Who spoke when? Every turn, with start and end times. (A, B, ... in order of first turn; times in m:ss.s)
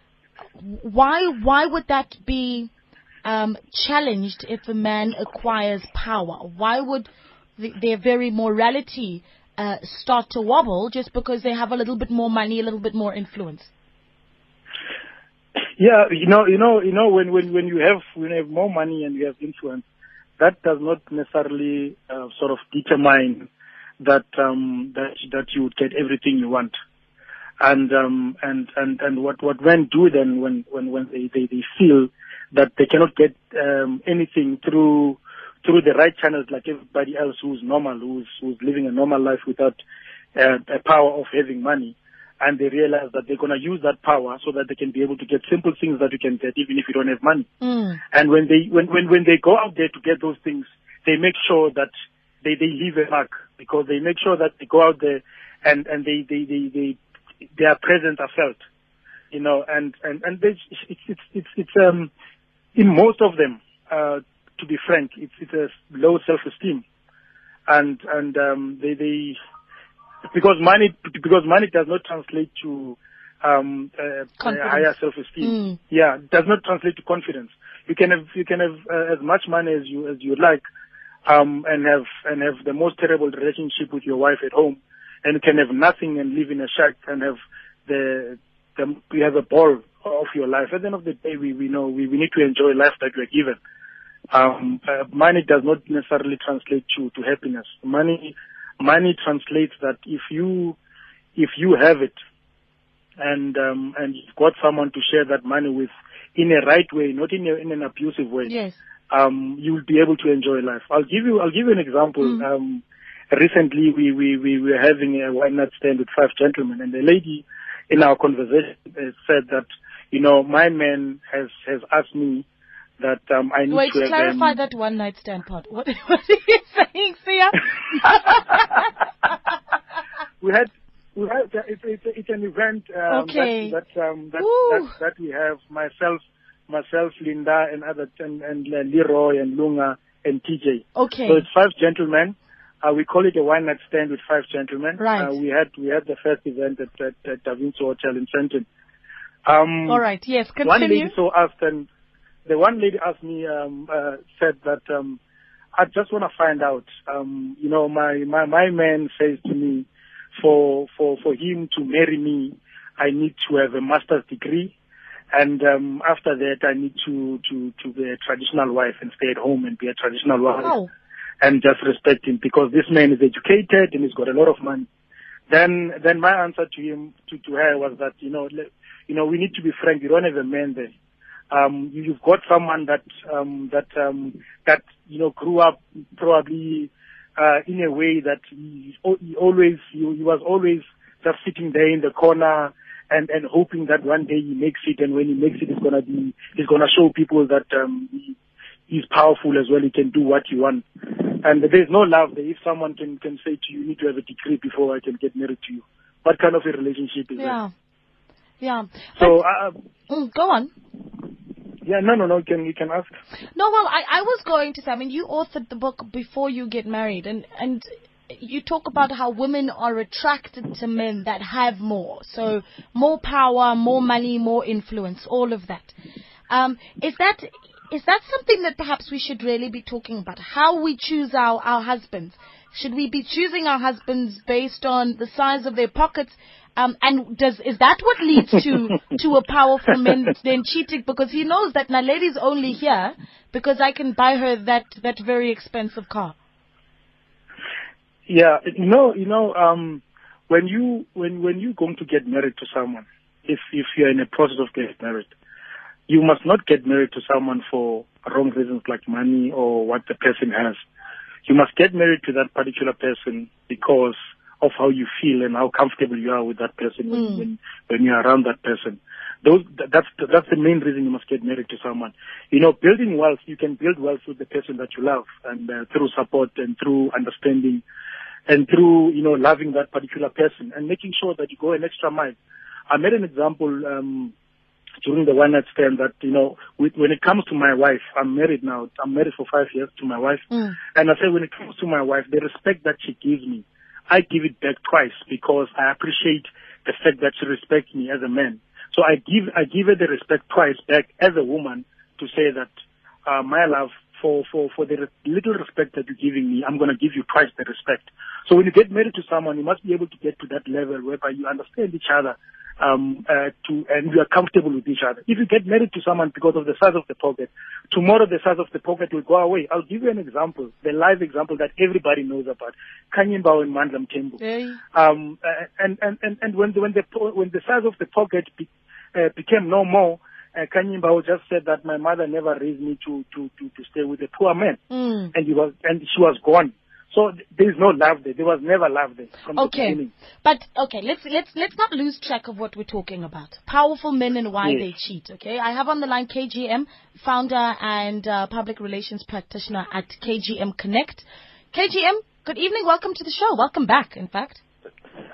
0:00.6-0:02.7 A
0:03.2-0:13.7 A
0:15.8-0:19.8 B
0:20.4-0:23.5 B
0:24.0-0:26.7 B
0:27.6-0:39.8 B
0:40.3-0:47.5 B
0:47.6-0:48.0 A
0:48.1-0:51.9 B
0:52.4-0:57.0 B
0:57.6-0:58.6 B
0:59.3-1:02.1 B
1:02.8-1:06.8 B
1:07.7-1:09.4 B
1:10.3-1:20.6 B
1:14.4-1:15.8 A
1:21.2-1:33.6 B
1:34.3-1:40.8 B
1:41.4-1:42.1 B
1:43.2-1:48.5 B
1:48.4-1:48.8 A
1:49.1-2:02.4 B
2:03.0-2:04.5 B
2:03.7-2:08.9 A
2:10.4-2:28.6 B
2:13.1-2:13.7 A
2:14.4-2:14.9 A
2:21.0-2:21.4 A
2:25.0-2:25.4 A
2:29.4-2:30.0 B
2:29.9-2:31.1 A
2:30.6-2:31.9 B
2:32.4-2:35.2 B
2:35.7-2:44.7 B
2:45.3-2:50.7 B
2:50.6-2:50.9 A
2:51.4-2:54.9 B
2:55.5-3:00.9 B
3:01.5-3:18.3 B
3:18.9-3:27.6 B
3:27.4-3:27.7 A
3:28.6-3:29.4 A
3:29.2-3:29.8 B
3:30.1-3:30.7 A
3:31.8-3:33.1 B
3:33.5-3:45.9 A
3:46.5-4:06.3 A
4:08.3-4:15.3 B
4:16.1-4:20.8 B
4:21.4-4:37.8 B
4:27.1-4:27.4 A
4:38.5-4:42.3 B
4:42.9-4:44.3 B
4:45.0-5:02.7 B
4:50.5-4:50.8 A
5:03.2-5:24.4 B
5:24.4-5:24.8 A
5:24.9-5:34.8 B
5:34.9-5:35.3 A
5:35.3-5:40.1 B
5:39.5-5:54.6 A